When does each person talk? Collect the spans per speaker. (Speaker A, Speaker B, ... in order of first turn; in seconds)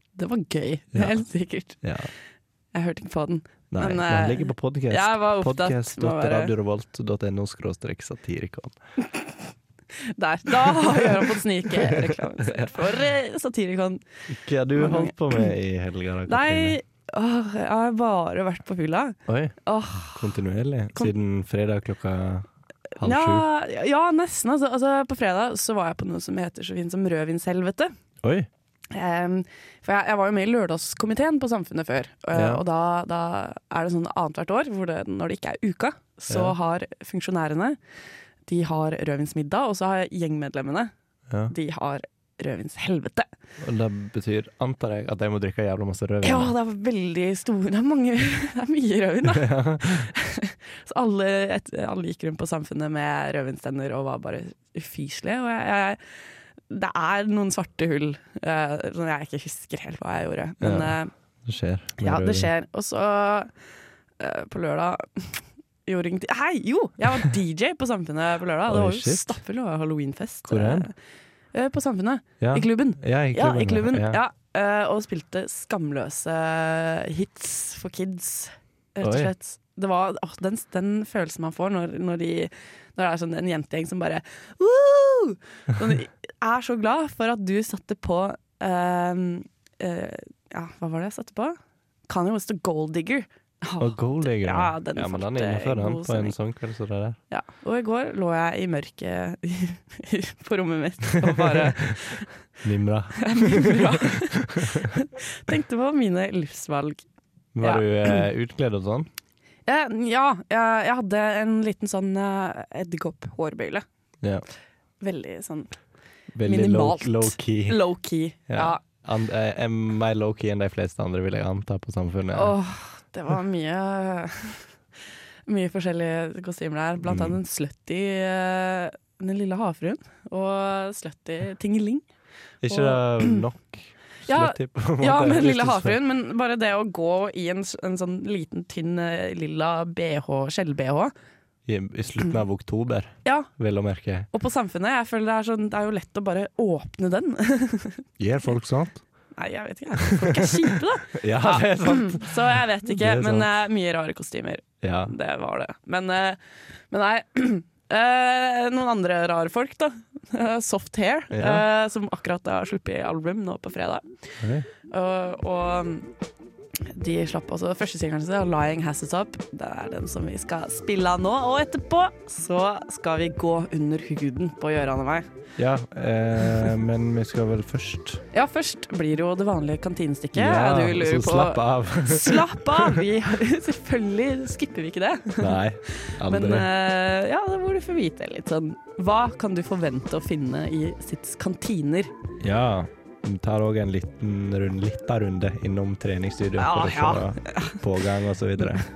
Speaker A: 0.2-1.8, 2.7-6.5, 10.1-14.0, 14.8-15.5, 16.3-20.3, 23.0-27.9, 28.9-37.8, 38.5-40.9, 41.5-43.3, 46.2-56.0, 56.7-61.1, 62.0-63.5, 64.2-70.9, 71.5-96.3, 97.3-102.3, 103.2-107.0, 107.6-108.3, 109.7-113.8, 115.0-115.7, 116.4-118.8, 122.3-124.7, 125.5-132.1, 132.7-133.4, 134.3-141.1, 143.2-143.5, 144.3-148.0, 149.4-156.4, 156.9-164.1, 164.9-166.1, 166.9-175.3, 178.3-192.1, 196.6-197.8
Speaker B: 0.9-1.2, 1.8-2.1, 3.7-8.8, 10.6-12.8, 14.3-16.8, 19.3-19.6, 20.1-22.5, 23.0-23.5, 28.2-28.5, 32.3-32.6, 36.3-36.6, 43.6-46.5, 49.3-50.1, 60.6-62.5, 68.7-69.4, 70.5-70.9, 72.4-74.2, 79.0-79.3, 93.8-97.2, 101.2-102.0, 102.6-104.9, 107.5-109.1, 116.3-117.8, 118.5-122.6, 127.0-127.4, 132.6-136.0, 141.7-144.3, 148.2-149.0, 150.0-153.5, 154.8-155.1, 161.3-161.7, 164.4-164.7, 175.6-178.2, 180.3-183.0, 185.4-186.7, 192.4-198.8